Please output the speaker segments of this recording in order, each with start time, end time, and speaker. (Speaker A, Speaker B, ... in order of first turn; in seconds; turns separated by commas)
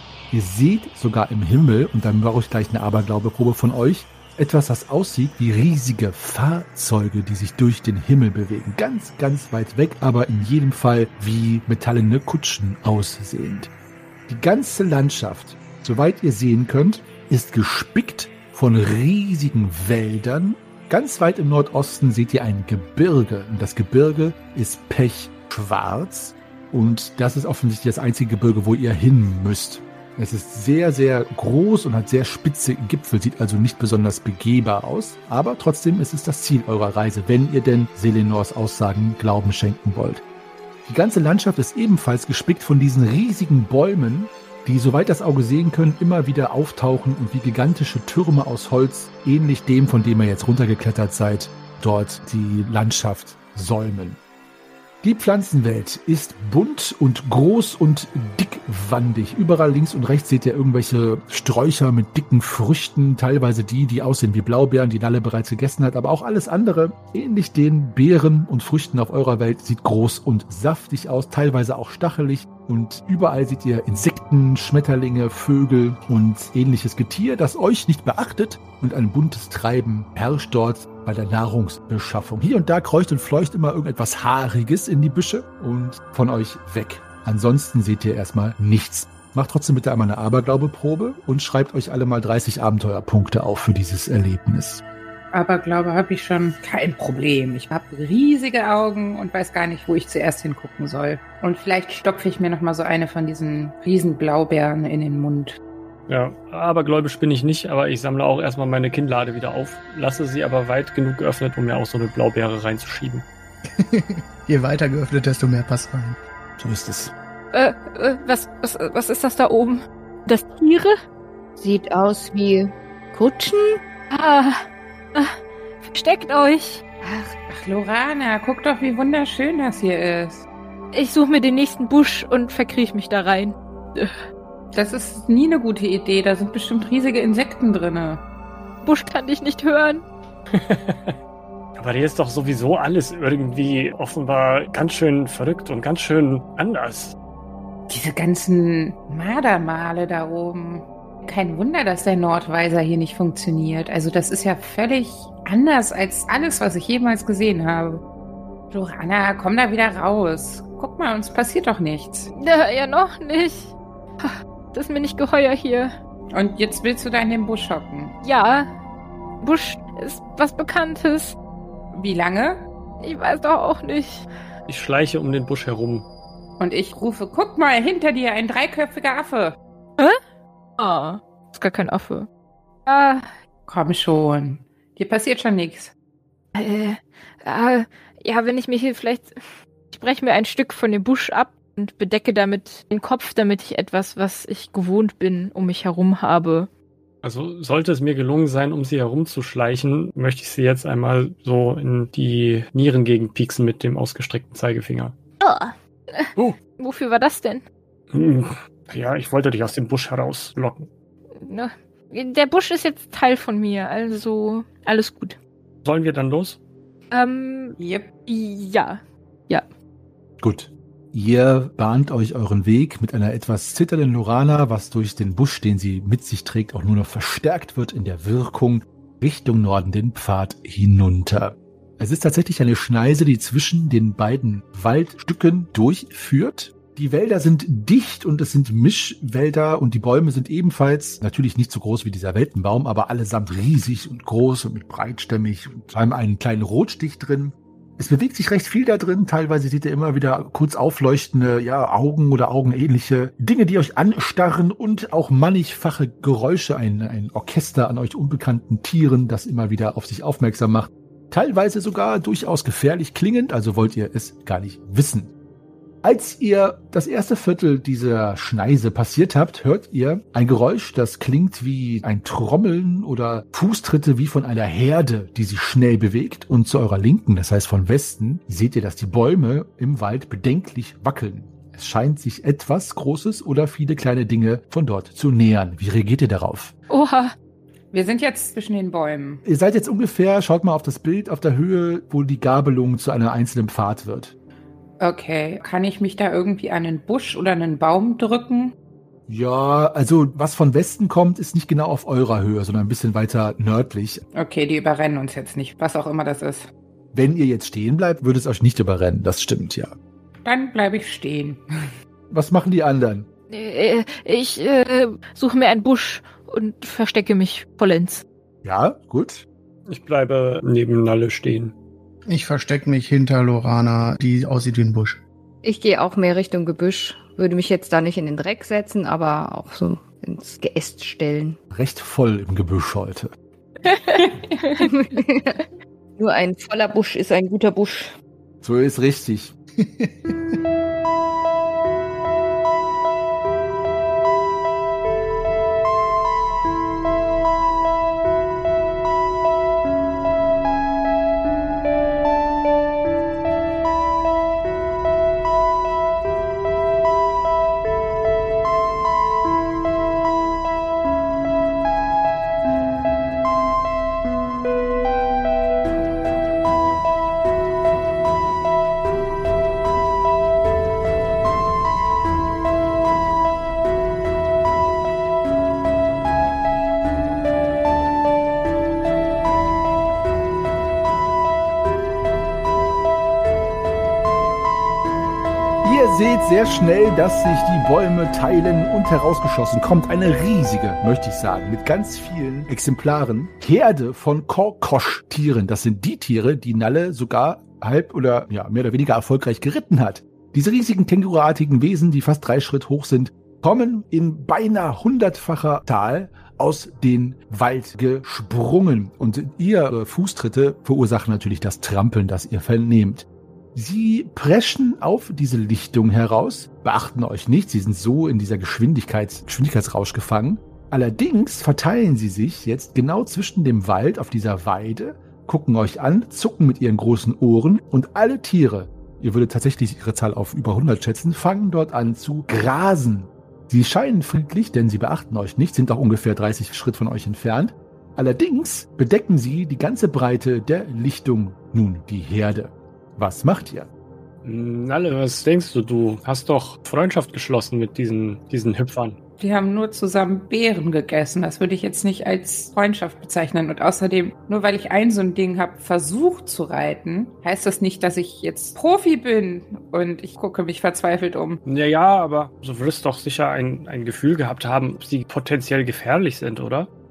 Speaker A: 0.3-13.7, Speaker A: 14.3-40.2, Speaker A: 40.9-54.2, Speaker A: 55.0-94.8, Speaker B: 95.3-105.6, Speaker C: 106.1-113.2, Speaker D: 113.7-116.2, Speaker A: 116.6-117.1, Speaker E: 117.5-120.9, Speaker F: 121.6-123.8, Speaker E: 124.1-124.6, Speaker E: 125.1-126.8, Speaker F: 127.0-127.4, Speaker B: 127.5-130.4, Speaker E: 130.9-134.2, Speaker B: 134.7-138.2, Speaker E: 138.8-140.0, Speaker C: 140.5-141.1, Speaker C: 141.8-147.2, Speaker B: 147.9-158.0, Speaker B: 158.7-162.3, Speaker E: 162.3-165.9, Speaker B: 166.3-168.1, Speaker E: 168.2-168.7, Speaker E: 169.4-171.3, Speaker B: 171.9-172.6, Speaker E: 173.0-174.3, Speaker C: 174.7-176.1, Speaker B: 176.6-179.6, Speaker E: 180.8-182.3, Speaker E: 182.9-183.3, Speaker B: 183.7-185.9, Speaker E: 186.5-189.4, Speaker E: 189.9-196.7, Speaker C: 197.2-205.1, Speaker E: 205.4-207.6, Speaker C: 208.1-210.9, Speaker E: 211.4-215.4, Speaker C: 215.8-216.6, Speaker E: 217.1-219.7, Speaker B: 217.8-218.1, Speaker A: 220.4-265.3, Speaker A: 266.0-286.7, Speaker E: 286.9-287.3, Speaker B: 287.9-289.4, Speaker A: 289.4-294.3, Speaker B: 295.0-298.7, Speaker A: 299.3-304.2, Speaker B: 304.4-306.7, Speaker A: 307.1-309.9, Speaker B: 310.4-311.9, Speaker A: 312.3-313.3, Speaker E: 313.5-318.2, Speaker A: 318.6-319.4, Speaker C: 319.9-321.7, Speaker D: 322.3-325.2, Speaker F: 325.6-331.6, Speaker A: 331.7-333.3, Speaker F: 334.8-338.1, Speaker A: 338.6-339.5, Speaker D: 339.8-340.3, Speaker A: 385.8-443.9, Speaker C: 444.4-449.2, Speaker B: 449.4-461.6, Speaker C: 461.6-466.9